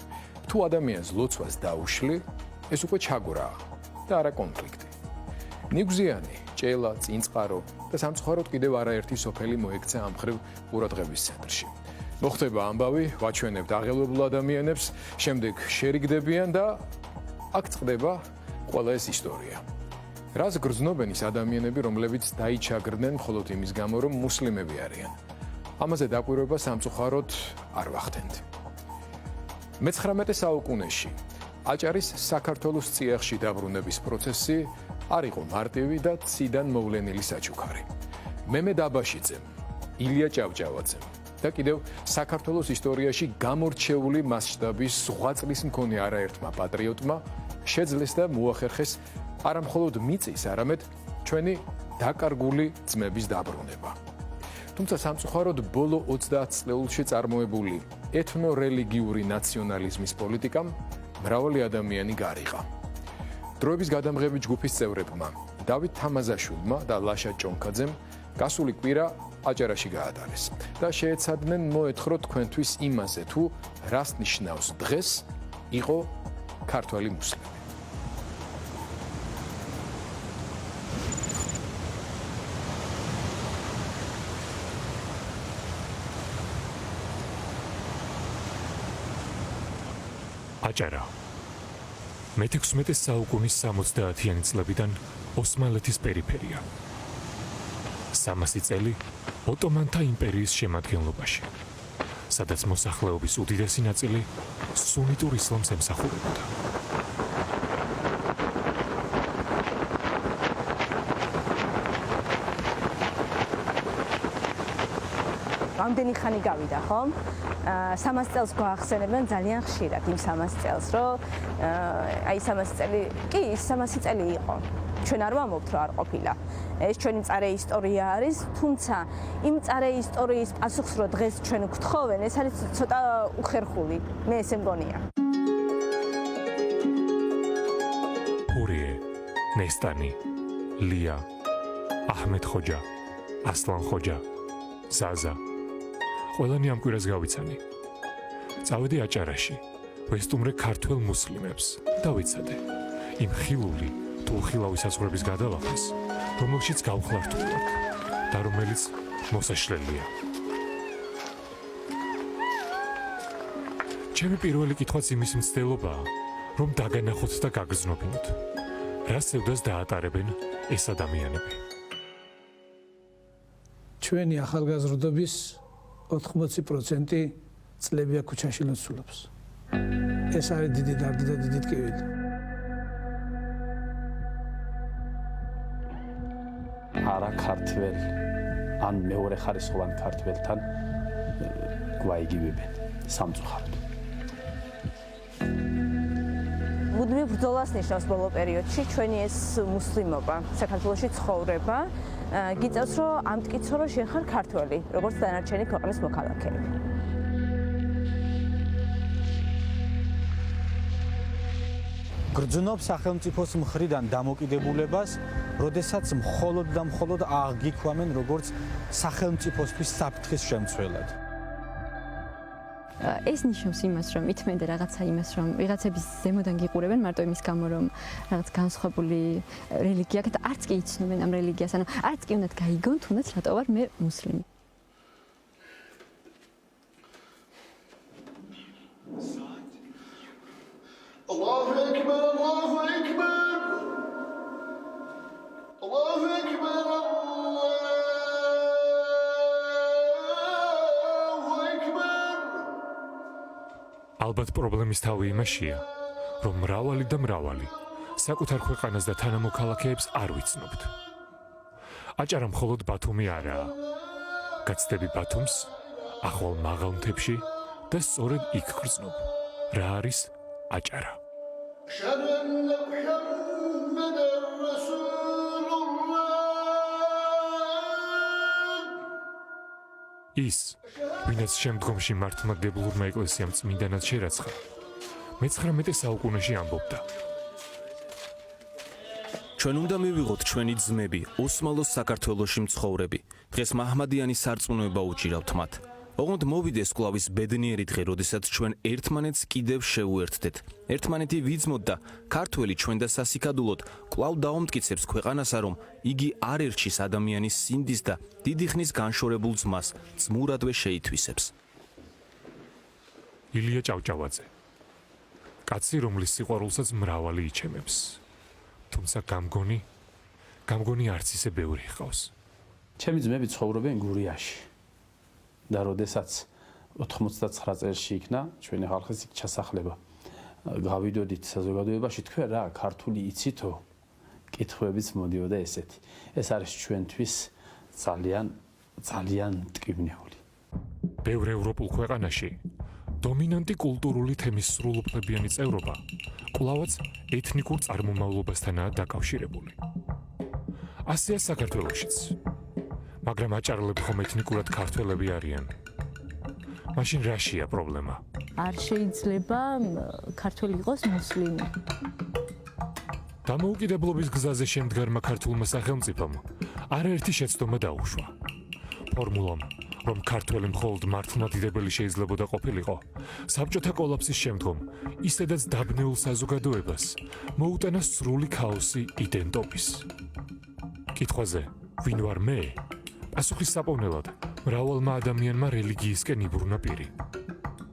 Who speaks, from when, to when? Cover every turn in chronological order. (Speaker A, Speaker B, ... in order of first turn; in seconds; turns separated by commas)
Speaker A: 0.5-4.9, Speaker A: 5.7-16.8, Speaker A: 17.5-19.6, Speaker A: 20.3-25.1, Speaker A: 25.8-28.4, Speaker A: 29.8-31.1, Speaker A: 31.6-37.9, Speaker A: 38.5-39.5, Speaker A: 40.0-54.0, Speaker A: 54.7-62.6, Speaker A: 63.6-76.1, Speaker A: 76.7-77.6, Speaker B: 90.6-91.1, Speaker B: 92.3-96.6, Speaker B: 98.1-101.5, Speaker B: 102.3-106.5, Speaker C: 115.8-135.0, Speaker B: 138.5-139.0, Speaker B: 139.5-140.2, Speaker B: 140.8-141.2, Speaker B: 142.1-142.8, Speaker B: 143.4-144.2, Speaker B: 144.9-145.4, Speaker B: 146.3-147.6, Speaker B: 148.6-152.6, Speaker B: 153.2-157.8, Speaker B: 158.3-160.1, Speaker B: 164.1-168.3, Speaker B: 169.1-171.6, Speaker D: 174.0-179.3, Speaker D: 180.3-182.0, Speaker E: 187.0-188.1, Speaker E: 188.8-190.6, Speaker E: 191.4-193.8, Speaker C: 196.9-206.7, Speaker F: 212.3-221.1, Speaker G: 223.0-234.4, Speaker B: 254.2-255.8, Speaker B: 256.4-260.9, Speaker B: 262.2-263.8, Speaker B: 264.6-271.2, Speaker B: 280.3-284.6, Speaker B: 285.4-287.0, Speaker H: 289.6-311.5, Speaker B: 313.5-314.5, Speaker B: 315.7-318.2, Speaker B: 318.9-319.8, Speaker B: 320.7-322.3, Speaker E: 323.0-324.7, Speaker E: 325.7-330.0, Speaker E: 330.7-333.8, Speaker E: 334.5-340.4, Speaker B: 341.2-342.6, Speaker B: 343.2-346.0, Speaker B: 346.5-349.8, Speaker B: 351.1-352.3, Speaker B: 353.2-355.7, Speaker B: 356.9-358.2, Speaker I: 358.6-361.7, Speaker B: 363.4-368.3, Speaker B: 369.1-380.1, Speaker B: 381.1-382.8, Speaker B: 383.3-387.1